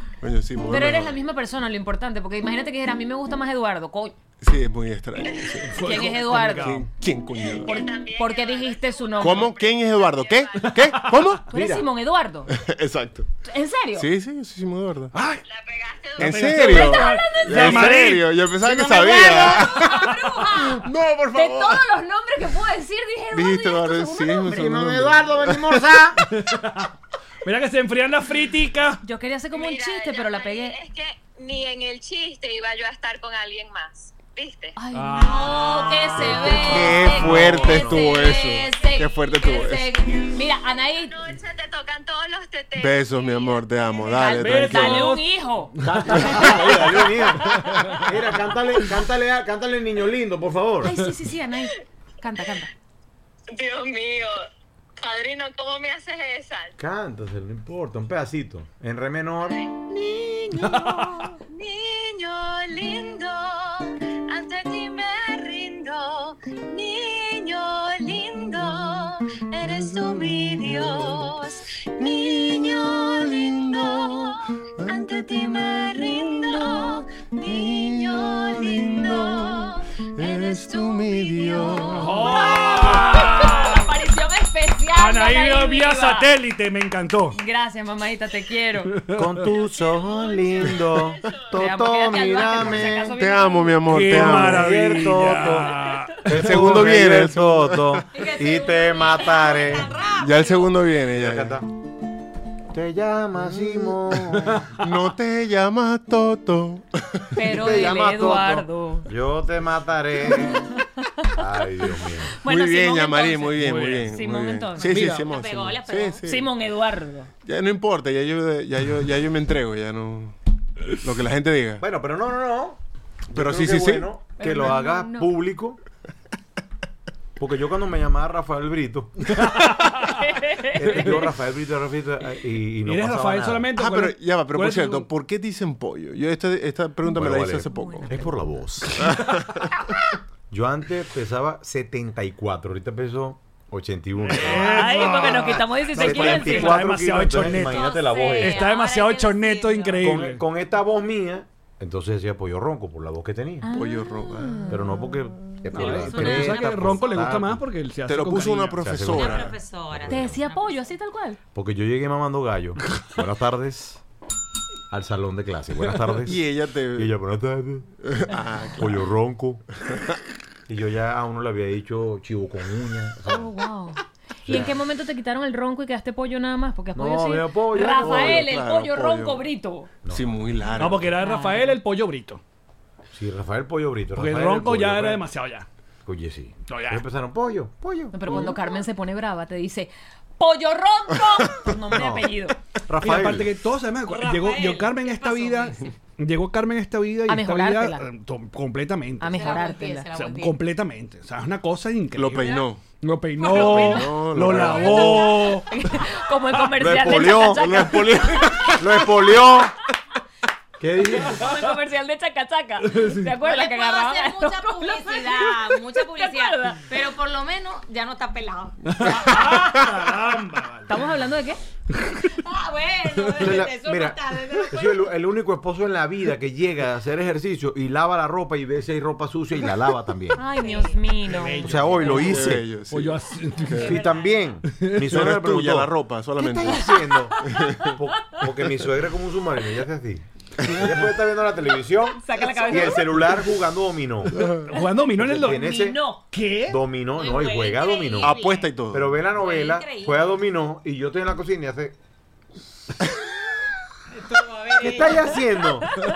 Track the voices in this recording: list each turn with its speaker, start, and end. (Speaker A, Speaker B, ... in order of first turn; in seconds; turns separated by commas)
Speaker A: 0.2-1.2, Speaker B: 0.7-4.2, Speaker A: 4.4-7.8, Speaker C: 5.4-5.7, Speaker D: 5.7-6.9, Speaker B: 5.8-6.8, Speaker C: 7.5-11.0, Speaker B: 7.5-9.6, Speaker A: 9.2-11.4, Speaker D: 10.6-11.3, Speaker E: 11.5-11.9, Speaker B: 11.5-12.5, Speaker A: 12.5-13.3, Speaker B: 13.5-14.1, Speaker A: 14.0-15.1, Speaker D: 15.1-15.4, Speaker C: 15.5-16.8, Speaker D: 16.2-20.2, Speaker A: 16.2-21.9, Speaker B: 16.6-18.0, Speaker B: 18.8-24.7, Speaker A: 23.3-25.8, Speaker E: 24.4-26.3, Speaker D: 26.2-26.9, Speaker D: 27.4-29.0, Speaker B: 29.0-30.8, Speaker C: 29.5-34.8, Speaker B: 34.8-41.2, Speaker D: 34.9-37.3, Speaker E: 36.2-38.0, Speaker A: 36.5-40.0, Speaker F: 38.3-38.6, Speaker C: 39.4-44.0, Speaker A: 42.8-45.1, Speaker B: 44.1-48.0, Speaker D: 44.4-48.1, Speaker E: 45.8-51.0, Speaker B: 50.8-52.7, Speaker C: 53.5-54.4, Speaker C: 55.0-56.7, Speaker E: 56.8-61.2, Speaker C: 59.5-59.8, Speaker D: 60.6-61.3, Speaker C: 61.4-83.0, Speaker A: 69.6-71.3, Speaker A: 72.0-82.7, Speaker D: 81.9-83.9, Speaker B: 82.2-86.3, Speaker D: 85.0-87.4, Speaker B: 87.3-89.0, Speaker D: 89.0-89.5, Speaker E: 89.1-93.1, Speaker C: 89.5-91.5, Speaker B: 91.5-93.9, Speaker A: 93.0-95.1, Speaker D: 93.9-96.9, Speaker E: 94.1-95.7, Speaker E: 96.2-99.9, Speaker A: 96.3-98.0, Speaker F: 98.1-100.9, Speaker A: 100.1-101.6, Speaker E: 101.0-101.7, Speaker E: 102.7-104.7, Speaker A: 104.8-107.4, Speaker B: 107.3-109.1, Speaker E: 107.5-110.7, Speaker B: 110.4-111.3, Speaker E: 111.3-112.3, Speaker B: 112.4-114.9, Speaker A: 112.4-116.5, Speaker D: 113.6-114.1, Speaker D: 114.8-115.3, Speaker F: 114.8-116.2, Speaker B: 116.2-117.3, Speaker A: 117.5-120.3, Speaker A: 121.0-121.8, Speaker E: 121.8-122.8, Speaker E: 123.3-125.8, Speaker A: 123.3-124.1, Speaker B: 124.4-125.3, Speaker E: 127.4-129.5, Speaker D: 129.3-130.2, Speaker B: 130.0-131.3, Speaker E: 130.7-133.7, Speaker D: 130.8-131.2, Speaker D: 132.8-135.1, Speaker A: 133.8-138.2, Speaker E: 137.1-139.1, Speaker F: 137.7-138.2, Speaker D: 138.9-139.4, Speaker A: 139.0-139.7, Speaker E: 140.5-148.7, Speaker D: 144.2-150.4, Speaker B: 144.5-147.0, Speaker F: 147.4-150.3, Speaker E: 150.0-153.7, Speaker B: 153.6-155.2, Speaker A: 153.7-154.8, Speaker E: 154.7-157.6, Speaker F: 155.7-157.2, Speaker D: 155.7-159.1, Speaker A: 158.1-159.6, Speaker E: 158.8-160.4, Speaker F: 159.1-160.9, Speaker B: 160.1-161.4, Speaker E: 161.5-164.0, Speaker E: 164.9-167.9, Speaker A: 166.2-167.1, Speaker A: 168.0-168.9, Speaker E: 168.8-169.7, Speaker E: 170.7-173.5, Speaker B: 173.3-179.9, Speaker E: 174.5-174.8, Speaker E: 176.9-178.5, Speaker A: 178.0-179.4, Speaker E: 180.1-180.4, Speaker A: 180.1-181.1, Speaker D: 180.8-182.4, Speaker B: 181.2-181.8, Speaker E: 183.1-185.2, Speaker D: 184.2-185.7, Speaker E: 186.1-188.6, Speaker D: 186.7-187.0, Speaker B: 188.1-192.6, Speaker E: 191.9-192.3, Speaker E: 192.9-193.5, Speaker D: 193.0-205.7, Speaker F: 194.0-195.9, Speaker B: 197.3-198.1, Speaker B: 199.2-200.1, Speaker F: 199.3-200.6, Speaker A: 202.1-202.8, Speaker F: 202.4-202.7, Speaker B: 203.4-208.8, Speaker A: 203.5-205.3, Speaker F: 203.6-203.9, Speaker F: 204.6-205.5, Speaker E: 206.7-207.9, Speaker A: 207.5-209.4, Speaker E: 208.7-209.7, Speaker E: 210.8-211.5, Speaker B: 211.1-216.9, Speaker D: 212.9-213.3, Speaker F: 213.4-218.8, Speaker D: 218.9-220.9, Speaker B: 220.9-221.6, Speaker F: 222.3-225.1, Speaker D: 223.3-223.6, Speaker E: 223.4-230.4, Speaker B: 230.3-232.0, Speaker F: 230.4-231.2, Speaker D: 231.2-234.0, Speaker E: 231.6-232.7, Speaker A: 232.1-234.0, Speaker F: 233.7-234.5, Speaker E: 233.8-244.5, Speaker D: 234.7-235.2, Speaker A: 235.1-238.0, Speaker B: 242.2-243.4, Speaker F: 242.4-242.8, Speaker D: 244.4-246.8, Speaker E: 245.1-246.0, Speaker B: 245.4-246.2, Speaker E: 246.7-252.0, Speaker F: 247.1-250.4, Speaker A: 248.2-249.2, Speaker F: 254.1-255.8, Speaker E: 254.8-255.9